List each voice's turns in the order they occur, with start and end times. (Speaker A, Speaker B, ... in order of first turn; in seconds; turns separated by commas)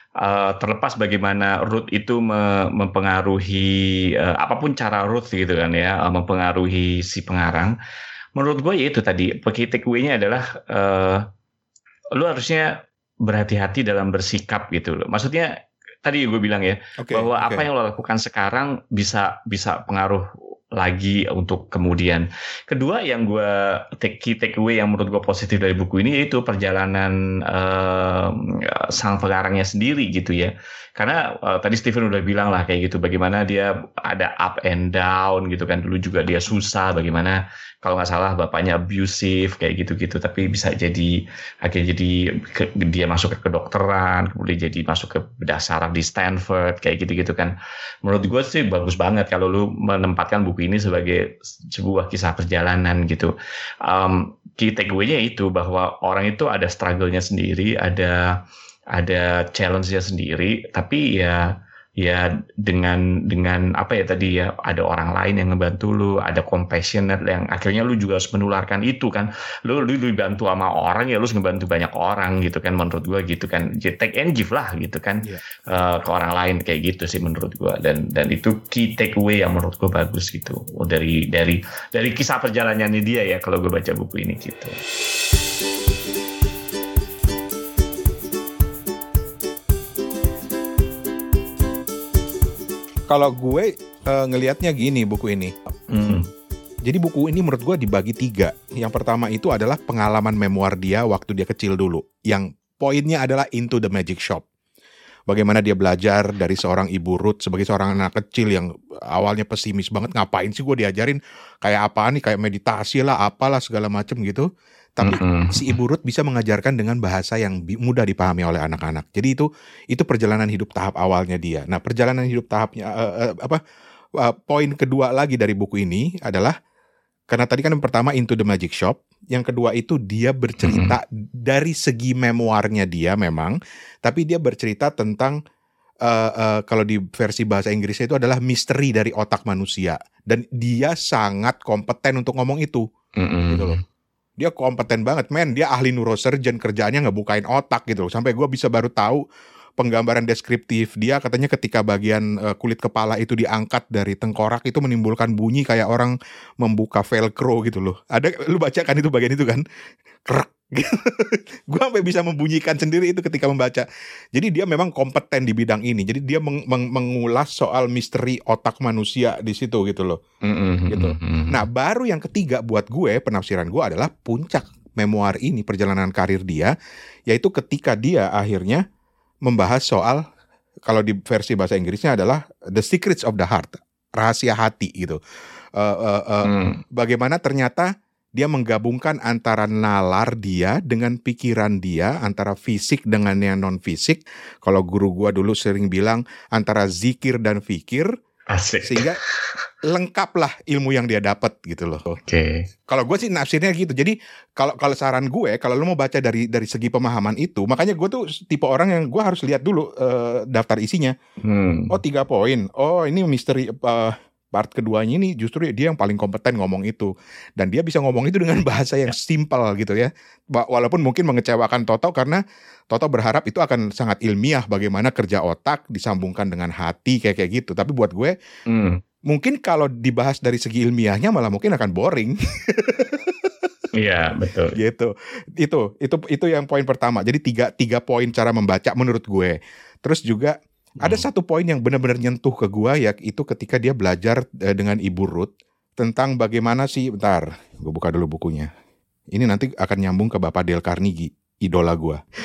Speaker A: 0.2-7.8, Speaker A: 8.4-11.2, Speaker A: 12.2-15.5, Speaker A: 16.0-47.5, Speaker B: 17.0-17.7, Speaker A: 48.0-53.3, Speaker A: 53.9-58.2, Speaker A: 59.0-61.4, Speaker A: 62.0-84.8, Speaker B: 93.1-95.5, Speaker A: 95.9-96.3, Speaker B: 96.9-104.5, Speaker B: 105.3-114.5, Speaker B: 115.0-123.6, Speaker A: 115.0-115.8, Speaker B: 124.2-126.5, Speaker B: 127.3-135.4, Speaker A: 130.6-131.0, Speaker B: 136.1-142.9, Speaker A: 143.2-143.8, Speaker B: 143.5-143.8, Speaker B: 144.4-149.2, Speaker B: 149.8-159.6, Speaker B: 160.3-170.2, Speaker A: 170.4-171.7, Speaker B: 170.9-176.7, Speaker B: 177.3-178.8, Speaker B: 179.5-180.2, Speaker B: 180.9-185.2, Speaker B: 185.8-198.1, Speaker A: 186.4-186.8, Speaker A: 198.5-199.6, Speaker B: 198.8-199.2, Speaker B: 199.9-202.2, Speaker A: 202.2-202.7, Speaker B: 202.9-211.1, Speaker A: 211.4-211.9, Speaker B: 211.9-222.4, Speaker B: 222.9-228.3, Speaker A: 228.7-229.0, Speaker B: 229.3-233.5, Speaker A: 234.0-234.8, Speaker B: 234.8-248.7, Speaker B: 249.3-252.2